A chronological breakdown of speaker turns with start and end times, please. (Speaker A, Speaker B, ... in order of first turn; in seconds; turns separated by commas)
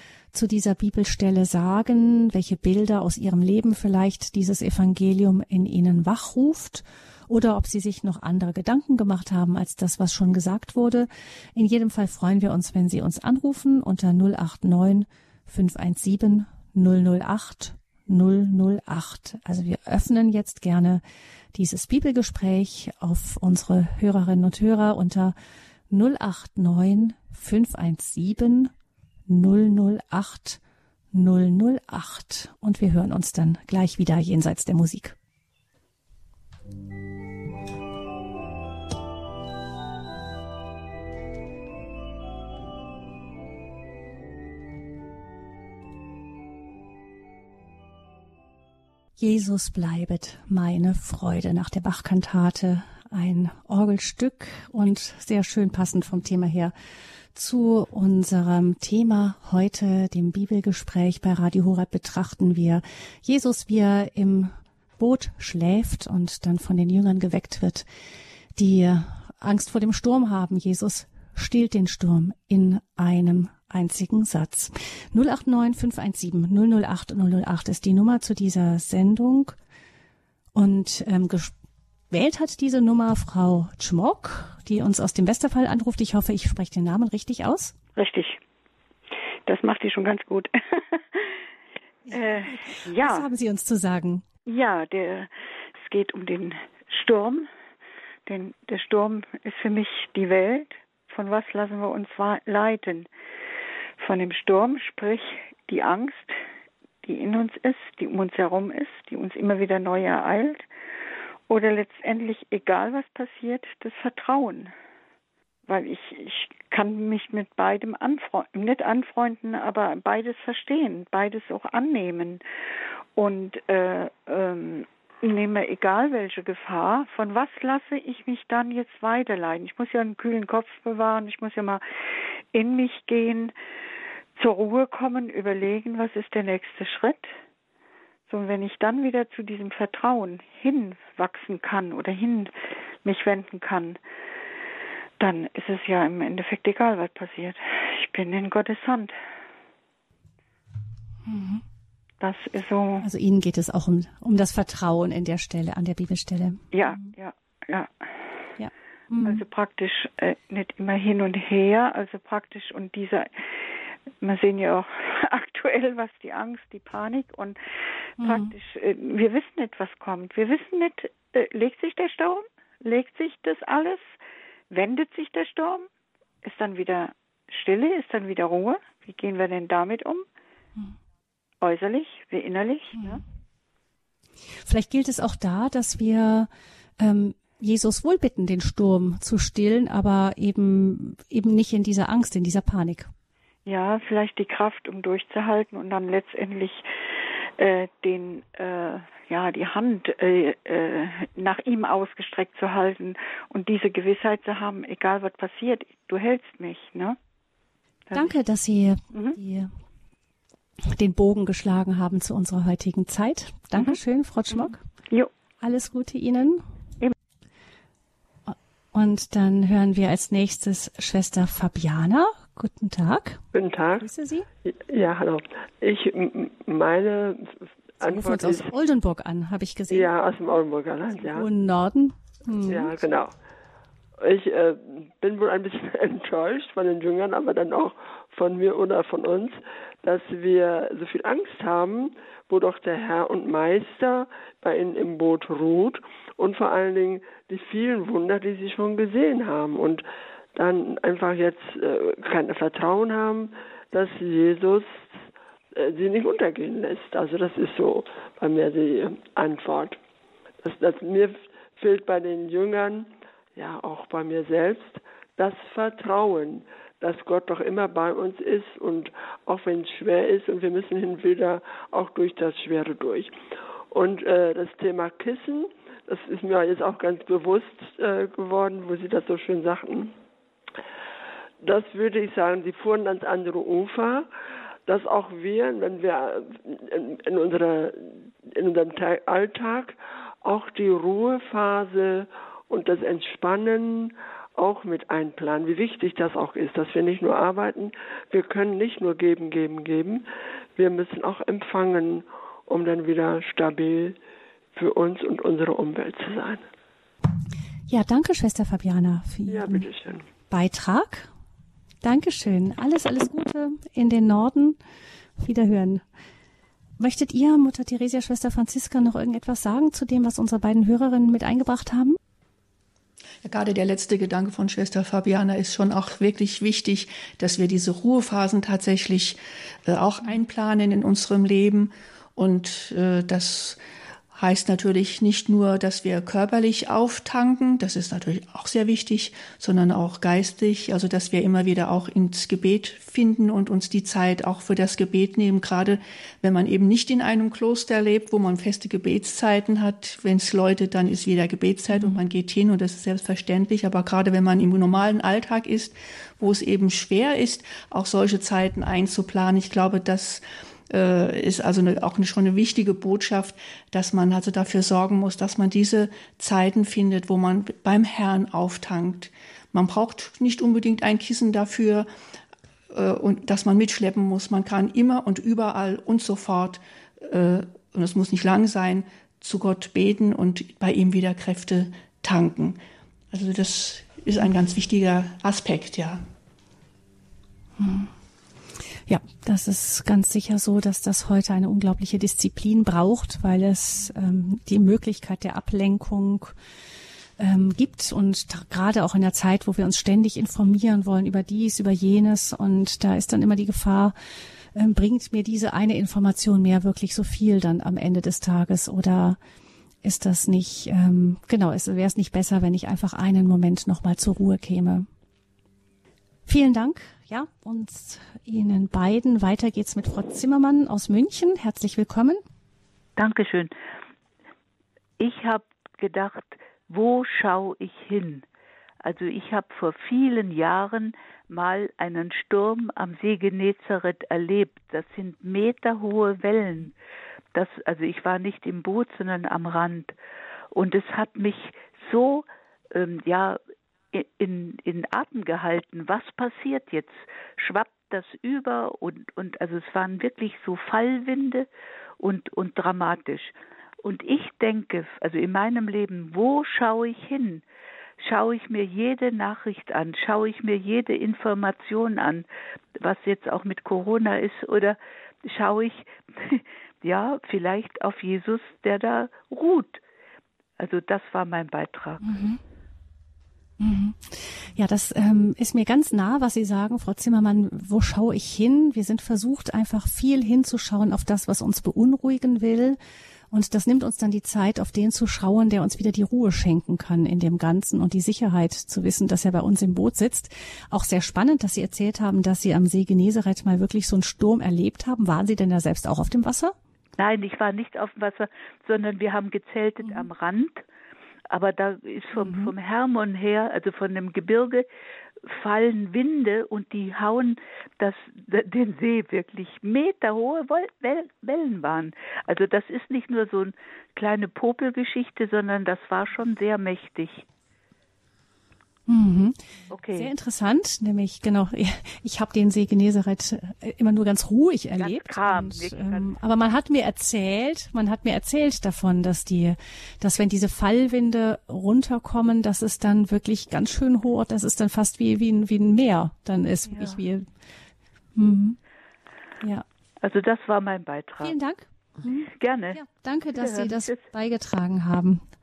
Speaker A: 0.3-21.0, Speaker A: 21.6-25.4, Speaker A: 25.9-28.7, Speaker A: 29.3-30.6, Speaker A: 31.1-35.2, Speaker A: 49.2-56.7, Speaker A: 57.4-67.9, Speaker A: 68.6-79.6, Speaker A: 80.5-81.5, Speaker A: 82.1-87.8, Speaker B: 88.0-88.4, Speaker B: 89.5-91.4, Speaker A: 92.1-94.2, Speaker B: 92.1-93.2, Speaker B: 94.5-97.5, Speaker B: 98.3-103.1, Speaker B: 104.0-106.4, Speaker B: 107.0-110.7, Speaker B: 111.5-114.7, Speaker B: 115.7-122.4, Speaker B: 123.2-131.8, Speaker B: 132.5-133.5, Speaker B: 134.4-137.3, Speaker B: 138.3-142.5, Speaker B: 143.0-144.0, Speaker B: 145.2-149.1, Speaker A: 151.3-151.6, Speaker B: 152.2-153.1, Speaker A: 153.0-157.1, Speaker B: 156.7-158.1, Speaker A: 158.6-159.4, Speaker B: 159.2-167.6, Speaker A: 168.2-168.5, Speaker B: 168.2-174.1, Speaker B: 174.7-175.9, Speaker B: 176.4-180.2, Speaker B: 181.6-183.2, Speaker A: 183.0-183.2, Speaker A: 184.7-193.1, Speaker B: 193.7-196.9, Speaker B: 197.6-207.2, Speaker A: 208.1-209.7, Speaker A: 210.9-214.8, Speaker A: 215.6-216.7, Speaker A: 218.5-223.4, Speaker C: 223.5-224.1, Speaker A: 224.0-224.5, Speaker C: 224.7-228.7, Speaker A: 228.0-230.1, Speaker C: 229.9-231.5, Speaker A: 231.1-233.0, Speaker C: 232.7-233.3, Speaker C: 234.2-250.0, Speaker C: 250.6-255.2, Speaker C: 255.8-260.0, Speaker C: 260.6-273.3, Speaker C: 273.9-280.1, Speaker C: 281.6-284.3, Speaker C: 284.9-300.2, Speaker C: 300.8-304.2, Speaker C: 304.8-306.7, Speaker A: 307.9-309.9, Speaker C: 309.5-310.3, Speaker A: 310.5-311.3, Speaker A: 312.0-314.8, Speaker A: 315.4-316.0, Speaker A: 317.0-322.2, Speaker D: 323.4-333.8, Speaker D: 334.4-372.1, Speaker A: 351.9-352.2, Speaker D: 372.9-382.8, Speaker D: 383.3-386.2, Speaker A: 387.8-388.1, Speaker A: 389.1-396.6, Speaker A: 397.4-404.1, Speaker A: 404.8-409.4, Speaker A: 410.0-415.1, Speaker A: 416.5-422.4, Speaker E: 423.2-423.7, Speaker E: 425.2-428.4, Speaker E: 429.0-436.9, Speaker E: 437.5-440.1, Speaker E: 440.7-443.6, Speaker E: 444.1-451.7, Speaker E: 452.2-457.6, Speaker E: 458.2-470.0, Speaker E: 470.8-472.2, Speaker A: 472.2-472.6, Speaker A: 473.8-483.0, Speaker A: 483.5-496.8, Speaker E: 497.2-500.8, Speaker E: 501.5-504.9, Speaker A: 502.4-502.7, Speaker E: 505.5-517.5, Speaker A: 519.1-519.6, Speaker E: 519.9-520.3, Speaker A: 520.1-537.5, Speaker E: 525.0-526.4, Speaker E: 536.9-537.2, Speaker A: 538.4-538.8, Speaker E: 540.2-541.6, Speaker A: 541.4-541.9, Speaker E: 542.2-543.0, Speaker A: 542.9-545.4, Speaker E: 543.6-544.1